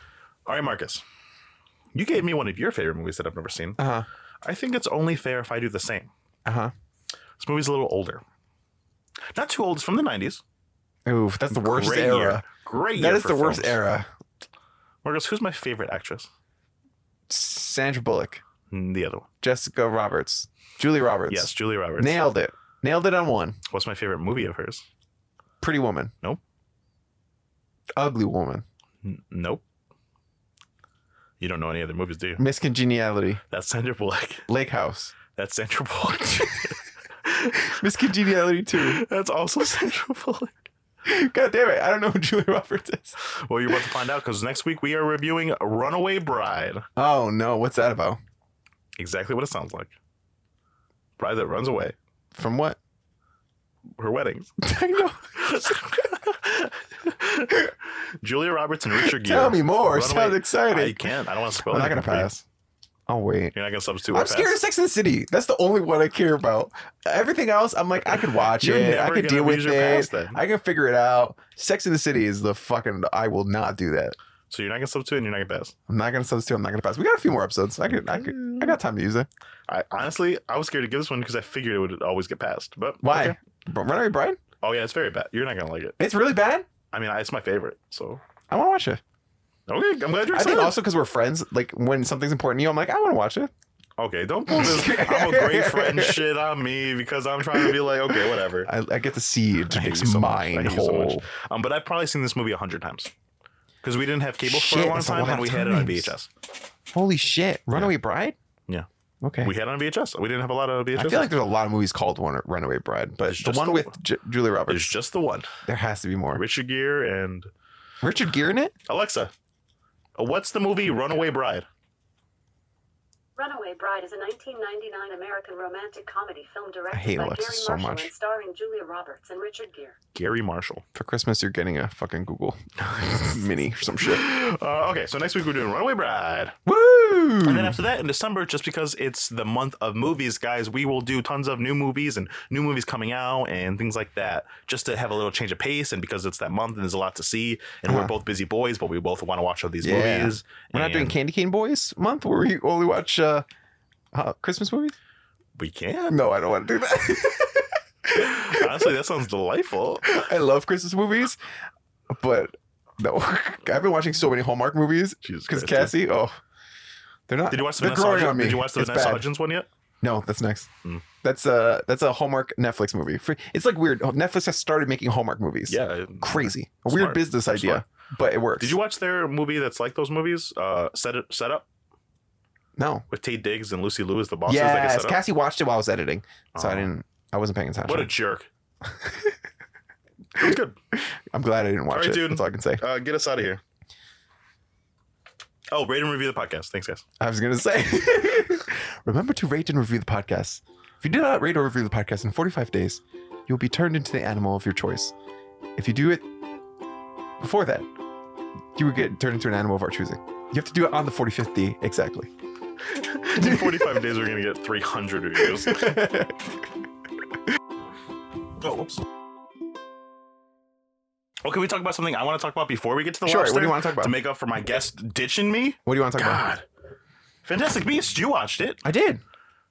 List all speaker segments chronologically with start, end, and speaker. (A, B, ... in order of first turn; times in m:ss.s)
0:00.4-0:01.0 A
0:01.9-0:03.8 A
0:03.8-0:04.1 B
0:04.4-0:06.1 A
0:06.4-0:06.7 B
0:07.4-0:08.2 A
0:09.3-0:10.4 A
0:11.0-0:14.1 B
0:11.5-0:13.8 A
0:15.0-0:16.3 A
0:17.3-0:18.4 B
0:18.7-0:19.3 A
0:19.4-0:23.6 B
0:21.3-0:22.2 A
0:23.7-0:24.9 A
0:25.6-0:26.1 B
0:28.0-0:28.6 B
0:29.0-0:29.6 A
0:31.4-0:32.4 A
0:32.4-0:33.4 B
0:33.5-0:34.5 A
0:34.5-0:35.2 B
0:35.3-0:37.8 A
0:37.5-0:39.0 B
0:38.7-0:40.6 A
0:41.0-0:43.2 B
0:43.2-0:46.8 A
0:47.0-0:48.2 B
0:49.0-0:49.9 A
0:51.2-0:52.0 A
0:52.3-0:52.8 B
0:54.0-0:54.5 A
0:54.6-0:55.8 B
0:55.3-1:02.3 A
0:59.0-1:01.1 B
1:01.7-1:02.4 B
1:03.1-1:03.5 B
1:03.5-1:04.6 A
1:04.1-1:14.2 B
1:08.1-1:10.4 A
1:14.5-1:15.7 A
1:15.9-1:19.3 B
1:17.9-1:18.8 A
1:19.7-1:23.4 A
1:23.0-1:24.4 B
1:24.6-1:26.0 A
1:26.0-1:26.6 B
1:26.9-1:28.2 A
1:28.5-1:29.0 B
1:29.7-1:30.8 A
1:30.3-1:33.5 B
1:34.0-1:38.7 A
1:34.5-1:36.2 B
1:38.6-1:41.2 B
1:39.7-1:43.1 A
1:43.8-1:46.3 A
1:44.4-1:46.1 B
1:46.9-1:48.4 B
1:49.2-1:49.5 B
1:49.4-1:51.3 A
1:50.9-1:55.0 B
1:53.2-1:53.9 A
1:54.7-1:55.5 A
1:55.6-1:56.4 B
1:56.3-1:57.5 A
1:58.0-1:58.7 B
1:58.8-1:59.3 A
2:00.2-2:01.6 A
2:03.4-2:10.0 C
2:06.9-2:08.1 B
2:10.1-2:10.8 A
2:10.9-2:14.2 B
2:12.9-2:13.2 A
2:14.0-2:16.6 A
2:16.6-2:17.8 B
2:17.4-2:31.1 A
2:27.9-2:28.1 B
2:29.8-2:33.4 B
2:34.1-2:34.9 B
2:35.6-2:36.2 A
2:36.1-2:38.9 B
2:38.1-2:40.3 A
2:40.0-2:41.4 B
2:42.1-2:46.4 B
2:45.2-2:45.9 A
2:47.3-2:49.3 B
2:47.5-2:49.7 A
2:50.0-2:50.7 B
2:51.2-2:58.8 B
2:55.7-2:57.8 A
2:58.6-3:01.7 A
3:02.8-3:03.0 B
3:03.1-3:05.2 A
3:04.5-3:08.1 B
3:06.5-3:06.9 A
3:07.8-3:08.5 A
3:09.0-3:09.3 B
3:10.3-3:10.8 A
3:11.0-3:12.8 B
3:11.9-3:13.6 A
3:15.7-3:17.0 A
3:17.2-3:25.1 B
3:25.8-3:26.2 B
3:27.4-3:27.9 B
3:28.7-3:32.3 B
3:32.8-3:36.0 A
3:33.4-3:33.8 B
3:35.6-3:36.3 B
3:38.6-3:39.0 A
3:41.4-3:46.6 A
3:43.2-3:44.1 B
3:45.8-3:46.5 B
3:47.4-3:48.8 A
3:48.8-3:49.2 B